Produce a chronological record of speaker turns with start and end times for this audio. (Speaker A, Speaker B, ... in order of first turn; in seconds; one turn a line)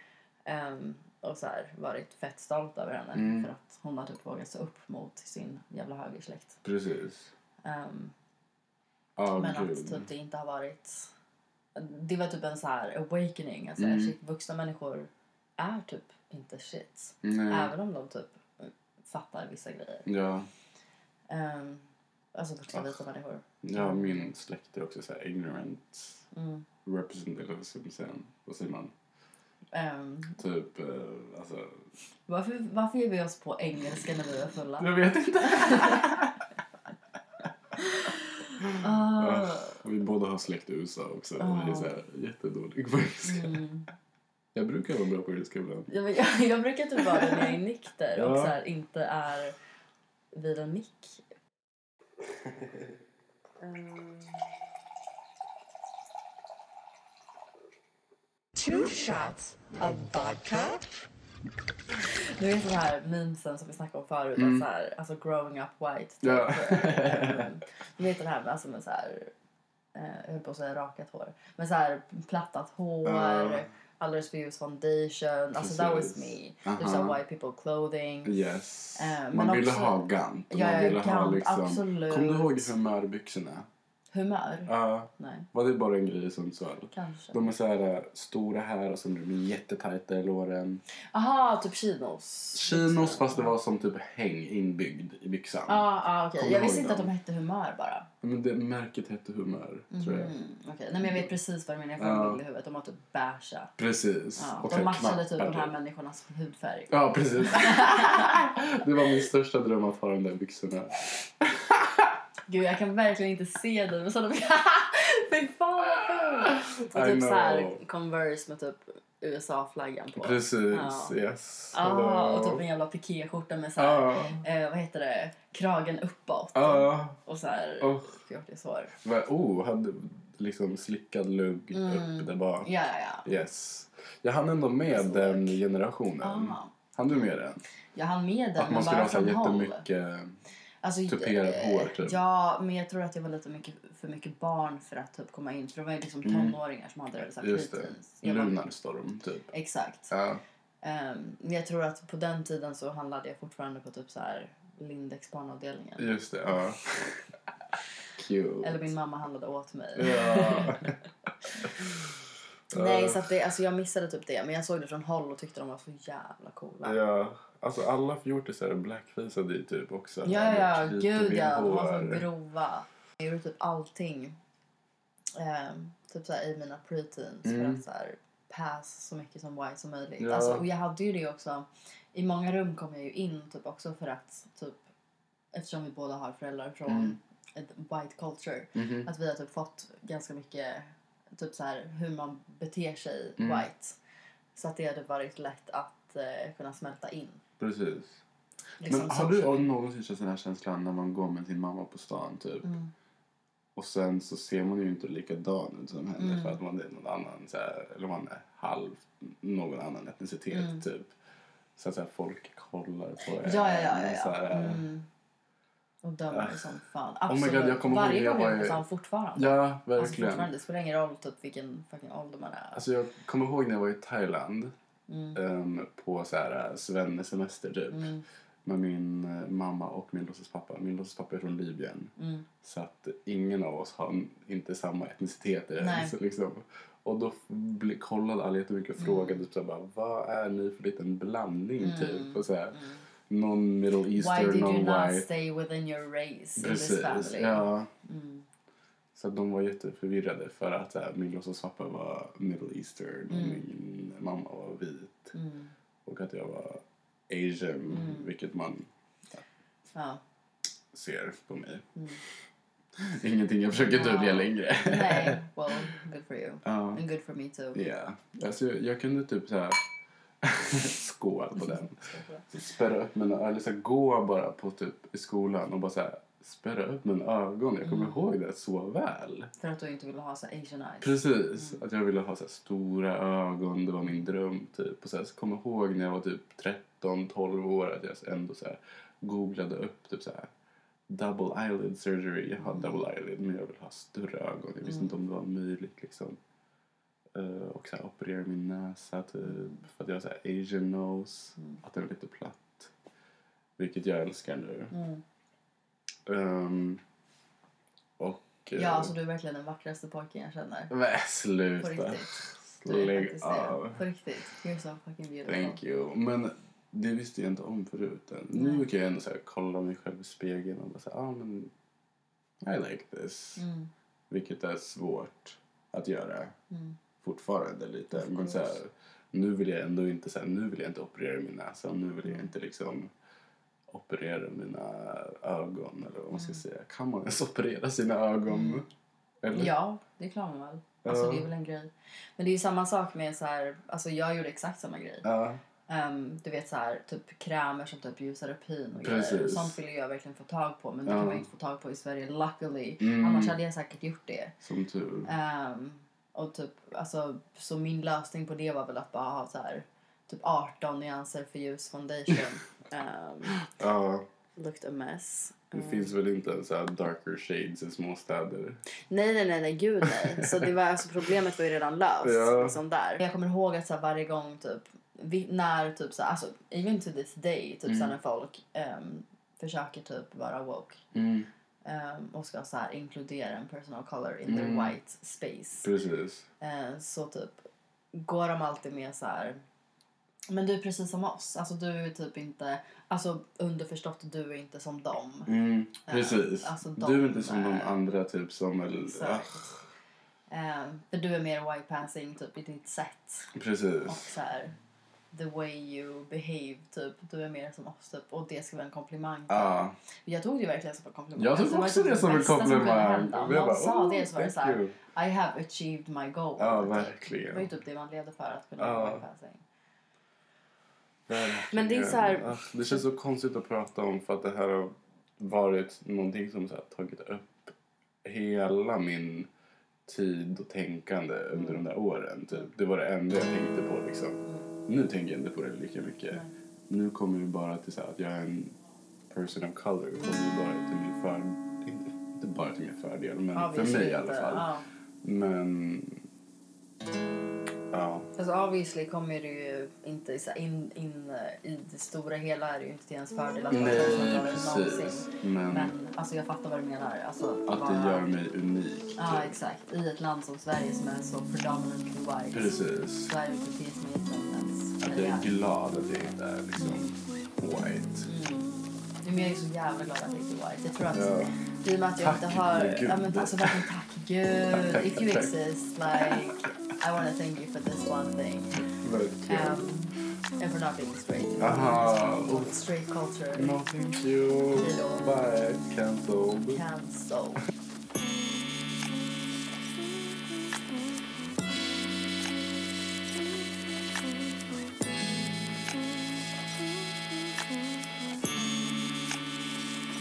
Speaker A: 0.5-6.6
Speaker B: 3.1-3.5
Speaker B: 6.6-7.3
Speaker A: 7.6-8.1
Speaker B: 9.2-10.1
Speaker A: 9.3-11.1
Speaker A: 11.8-20.1
Speaker B: 13.8-14.1
Speaker B: 17.2-17.7
Speaker B: 20.1-20.5
Speaker A: 21.3-24.3
Speaker B: 22.7-23.0
Speaker B: 23.6-26.2
Speaker A: 26.3-26.6
Speaker B: 26.9-28.9
Speaker A: 29.7-30.4
Speaker B: 30.4-31.9
Speaker A: 32.3-36.1
Speaker B: 34.8-36.4
Speaker A: 37.8-38.1
Speaker B: 38.6-43.6
Speaker A: 38.8-39.8
Speaker A: 41.4-42.0
Speaker A: 43.2-43.9
Speaker B: 44.5-45.9
Speaker A: 45.9-49.5
Speaker B: 47.1-47.5
Speaker B: 48.1-48.6
Speaker A: 50.3-51.2
Speaker A: 53.6-54.4
Speaker C: 58.5-60.8
Speaker A: 62.0-69.3
Speaker B: 64.4-64.7
Speaker B: 66.2-67.5
Speaker A: 70.0-78.4
Speaker B: 73.0-73.7
Speaker B: 75.5-77.2
Speaker B: 78.2-83.7
Speaker A: 79.0-82.7
Speaker A: 84.1-85.5
Speaker B: 84.7-90.8
Speaker A: 86.9-87.4
Speaker A: 91.1-93.5
Speaker B: 92.5-97.1
Speaker A: 95.7-98.1
Speaker B: 98.2-100.3
Speaker A: 99.9-103.8
Speaker B: 101.0-101.3
Speaker B: 102.0-102.4
Speaker B: 103.8-105.7
Speaker A: 104.4-108.4
Speaker B: 106.9-112.1
Speaker A: 112.5-121.1
Speaker B: 116.5-117.8
Speaker B: 120.1-122.6
Speaker A: 121.7-128.9
Speaker B: 123.8-124.4
Speaker B: 126.5-127.2
Speaker B: 127.8-128.1
Speaker B: 129.0-132.7
Speaker A: 131.7-133.3
Speaker B: 133.2-137.6
Speaker A: 134.9-135.6
Speaker A: 136.2-136.7
Speaker A: 137.9-139.8
Speaker B: 138.6-140.4
Speaker A: 140.8-148.6
Speaker B: 141.1-142.2
Speaker B: 146.2-146.6
Speaker B: 147.4-149.5
Speaker A: 149.5-150.1
Speaker B: 150.1-150.4
Speaker A: 150.8-156.1
Speaker B: 156.0-157.2
Speaker B: 158.1-158.9
Speaker A: 158.6-160.9
Speaker B: 160.0-160.9
Speaker B: 162.7-163.2
Speaker A: 162.7-167.0
Speaker B: 166.8-172.2
Speaker A: 170.2-174.4
Speaker A: 175.4-184.8
Speaker B: 177.4-177.8
Speaker B: 180.2-180.6
Speaker A: 185.5-194.0
Speaker B: 186.9-187.2
Speaker B: 188.8-189.1
Speaker B: 193.4-193.7
Speaker A: 194.5-197.4
Speaker B: 197.6-198.2
Speaker A: 198.8-199.7
Speaker B: 198.9-202.7
Speaker A: 202.6-202.9
Speaker B: 203.8-211.1
Speaker A: 206.2-206.6
Speaker A: 210.5-210.8
Speaker B: 211.8-214.8
Speaker A: 213.4-215.1
Speaker A: 216.0-222.8
Speaker B: 216.3-216.8
Speaker B: 217.3-218.8
Speaker B: 219.4-220.5
Speaker B: 222.8-224.7
Speaker A: 225.1-225.4
Speaker B: 225.3-228.1
Speaker A: 227.9-228.2
Speaker B: 228.6-245.3
Speaker A: 232.2-232.5
Speaker A: 235.8-236.1
Speaker A: 239.0-239.4
Speaker A: 241.8-243.0
Speaker A: 244.1-248.5
Speaker B: 246.6-247.9
Speaker B: 249.2-255.3
Speaker A: 253.3-253.7
Speaker A: 255.3-255.7
Speaker B: 256.0-258.9
Speaker A: 257.9-258.3
Speaker A: 259.9-260.2
Speaker B: 260.9-261.9
Speaker A: 262.0-262.2
Speaker B: 263.0-265.8
Speaker A: 263.8-267.8
Speaker B: 266.6-267.0
Speaker B: 267.7-269.8
Speaker B: 270.4-272.0
Speaker A: 271.6-272.5
Speaker B: 272.5-279.5
Speaker A: 277.8-278.3
Speaker A: 279.6-281.8
Speaker B: 281.0-290.5
Speaker B: 291.1-296.4
Speaker A: 292.6-293.0
Speaker A: 294.9-295.1
Speaker B: 297.3-302.9
Speaker A: 299.4-299.8
Speaker B: 303.8-304.9
Speaker A: 304.9-305.2
Speaker B: 306.2-307.0
Speaker B: 308.2-309.1
Speaker A: 308.8-310.9
Speaker B: 310.9-314.0
Speaker A: 311.8-315.8
Speaker B: 315.5-321.7
Speaker A: 318.5-318.9
Speaker B: 322.6-323.6
Speaker A: 323.6-323.9
Speaker B: 324.3-326.6
Speaker A: 326.7-327.0
Speaker B: 327.2-333.1
Speaker A: 328.1-328.8
Speaker B: 333.9-338.9
Speaker A: 336.3-336.6
Speaker A: 338.5-338.8
Speaker B: 339.4-339.8
Speaker A: 339.5-345.3
Speaker B: 341.0-341.5
Speaker B: 345.2-345.6
Speaker A: 345.9-354.6
Speaker B: 349.0-349.8
Speaker B: 351.1-351.4
Speaker B: 353.0-353.6
Speaker B: 354.6-355.3
Speaker A: 355.2-363.6
Speaker B: 363.6-364.2
Speaker A: 364.6-366.1
Speaker B: 365.7-368.8
Speaker A: 369.1-381.0
Speaker B: 370.1-370.7
Speaker B: 372.2-372.8
Speaker B: 377.9-378.2
Speaker B: 381.1-381.5
Speaker A: 381.8-385.9
Speaker B: 384.5-385.0
Speaker B: 385.8-386.5
Speaker A: 386.6-387.6
Speaker A: 388.1-389.6
Speaker A: 390.5-395.5
Speaker B: 395.5-399.6
Speaker A: 396.1-398.0
Speaker A: 399.0-399.8
Speaker A: 400.5-403.5
Speaker B: 403.5-404.3
Speaker A: 404.0-404.8
Speaker A: 405.3-419.6
Speaker B: 409.5-410.0
Speaker B: 411.4-415.0
Speaker B: 416.6-417.7
Speaker B: 418.8-419.2
Speaker B: 421.3-427.7
Speaker A: 421.6-423.0
Speaker B: 428.2-429.5
Speaker B: 430.1-438.8
Speaker B: 439.3-444.7
Speaker A: 443.5-444.9
Speaker B: 445.2-446.2
Speaker B: 447.9-448.3
Speaker A: 448.4-458.3
Speaker B: 453.7-455.9
Speaker B: 457.7-459.5
Speaker A: 459.2-465.5
Speaker B: 462.5-463.3
Speaker B: 465.0-468.3
Speaker A: 468.2-468.7
Speaker A: 469.2-478.9
Speaker B: 471.1-471.5
Speaker B: 472.2-473.9
Speaker B: 474.7-475.5
Speaker B: 476.1-476.6
Speaker B: 478.9-479.9
Speaker A: 479.5-483.8
Speaker B: 481.6-482.8
Speaker B: 483.5-486.8
Speaker A: 484.7-485.3
Speaker A: 486.7-487.6